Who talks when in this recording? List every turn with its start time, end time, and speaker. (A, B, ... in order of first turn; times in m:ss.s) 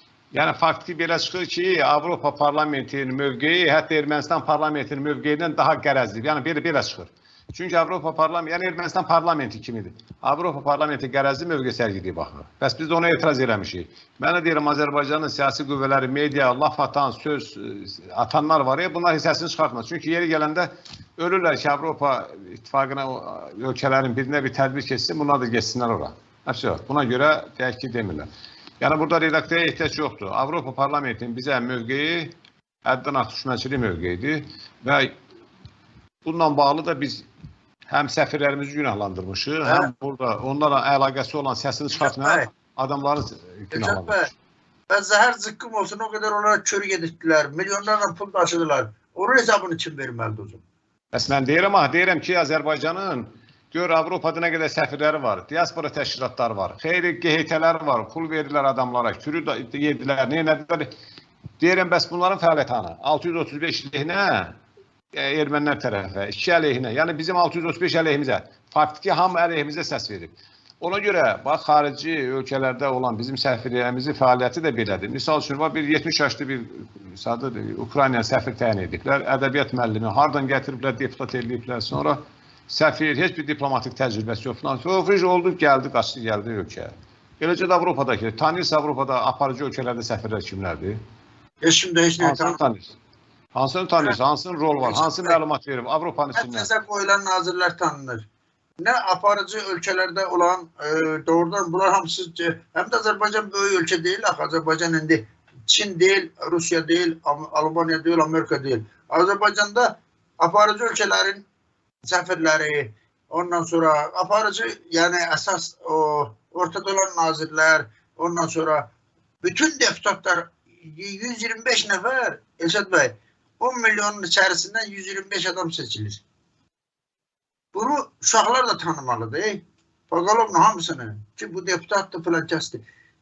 0:00.3-0:28.3 A
0:28.8-0:35.1 A
0:36.2-0:37.2 A
0:37.9-0:44.3 A
0:39.6-0:39.9 B
0:42.0-0:42.5 B
0:43.7-0:44.3 B
0:44.9-0:50.6 B
0:51.1-1:00.9 A
1:01.6-1:04.6 A
1:05.1-1:31.0 A
1:31.6-1:32.6 B
1:32.2-1:33.0 A
1:33.5-1:36.7 A
1:34.8-1:35.4 B
1:36.4-1:38.3 B
1:38.8-1:51.5 B
1:52.0-1:58.9 B
1:59.4-2:06.2 B
2:07.7-2:12.8 B